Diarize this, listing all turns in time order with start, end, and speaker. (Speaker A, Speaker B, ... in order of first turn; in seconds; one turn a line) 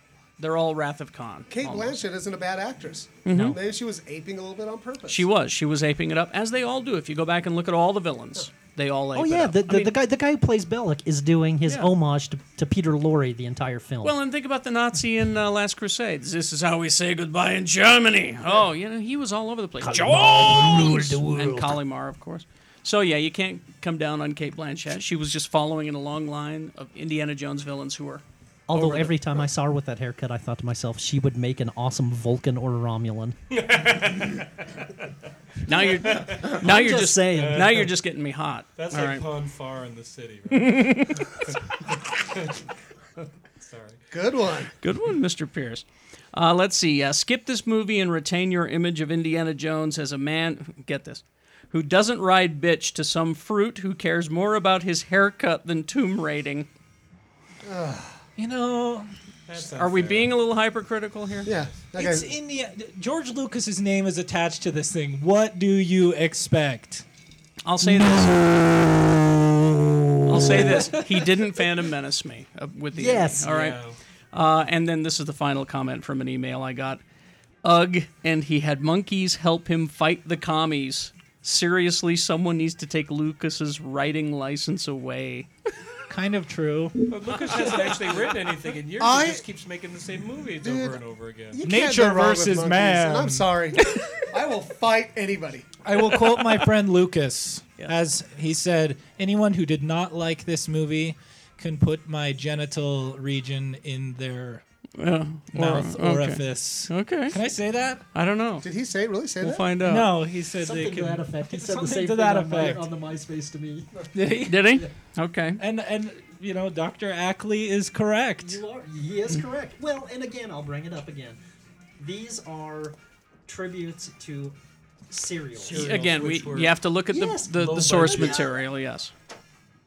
Speaker A: 0.4-2.0
Speaker B: 1.5-5.3
Speaker A: 3.2-3.6
Speaker A: 5.1-9.9
Speaker C: 9.2-14.2
Speaker A: 14.0-29.1
Speaker C: 19.8-21.8
Speaker C: 28.7-33.4
Speaker D: 33.5-34.9
Speaker A: 35.6-39.2
Speaker D: 35.9-36.6
Speaker C: 36.3-37.9
Speaker D: 37.3-37.9
Speaker D: 38.8-42.6
Speaker A: 40.5-41.3
Speaker D: 43.6-44.0
Speaker B: 44.1-44.7
Speaker A: 44.8-56.7
Speaker B: 57.6-58.2
Speaker E: 58.4-59.1
Speaker D: 59.5-60.4
Speaker A: 59.8-61.5
Speaker B: 61.5-62.3
Speaker E: 61.9-67.0
Speaker A: 67.7-68.4
Speaker E: 68.0-68.2
Speaker A: 70.3-73.8
Speaker E: 70.3-71.0
Speaker C: 72.9-73.4
Speaker D: 73.4-74.0
Speaker A: 74.3-77.0
Speaker A: 77.6-85.5
Speaker E: 86.1-87.9
Speaker D: 87.1-91.6
Speaker B: 89.0-89.4
Speaker B: 90.6-91.0
Speaker B: 91.5-95.7
Speaker E: 91.6-93.5
Speaker A: 93.8-94.1
Speaker E: 95.8-104.6
Speaker A: 105.0-107.4
Speaker E: 105.5-108.0
Speaker A: 108.1-108.7
Speaker B: 108.6-109.7
Speaker A: 109.4-110.1
Speaker E: 109.8-112.9
Speaker C: 110.6-113.9
Speaker E: 114.1-114.9
Speaker A: 114.5-115.6
Speaker E: 115.6-118.6
Speaker C: 118.4-121.4
Speaker C: 122.0-123.0
Speaker C: 123.5-124.5
Speaker C: 125.1-126.0
Speaker D: 125.6-126.8
Speaker A: 125.7-129.1
Speaker C: 127.1-128.6
Speaker D: 127.6-128.4